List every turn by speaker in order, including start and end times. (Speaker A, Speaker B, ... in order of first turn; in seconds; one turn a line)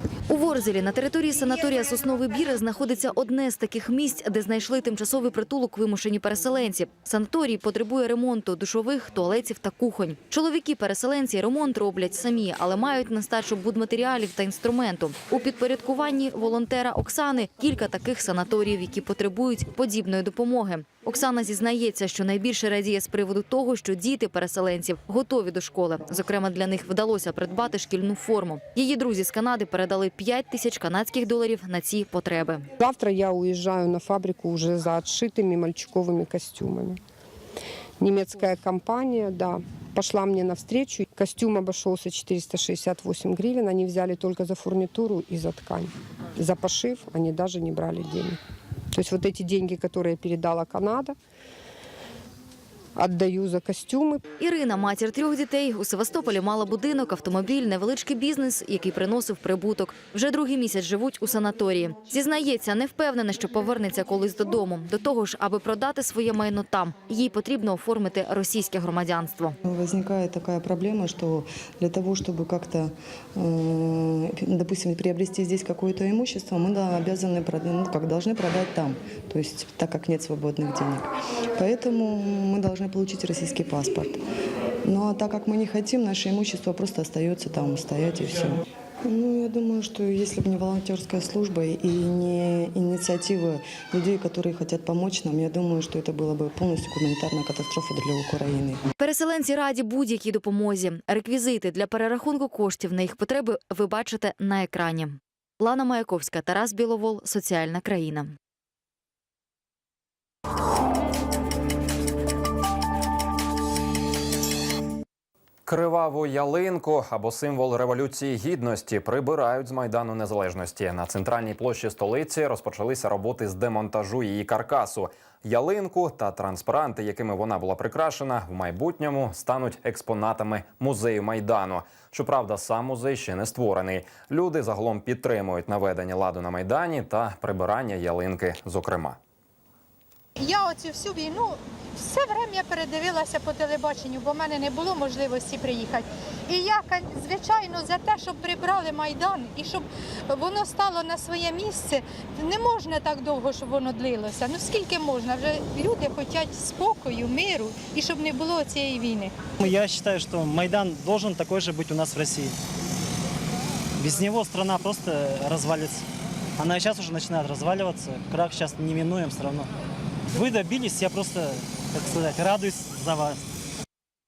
Speaker A: 0.3-32.6
Speaker B: 32.8-37.0
Speaker B: 38.0-48.4
Speaker B: 48.9-51.1
Speaker B: 53.0-54.2
Speaker A: 54.4-69.5
Speaker C: 69.7-84.2
Speaker C: 84.8-98.8
Speaker A: 99.0-108.3
Speaker D: 115.7-139.2
Speaker E: 140.5-141.5
Speaker E: 142.1-159.3
Speaker F: 159.6-162.5
Speaker F: 164.0-166.0
Speaker F: 166.6-169.7
Speaker F: 170.3-173.4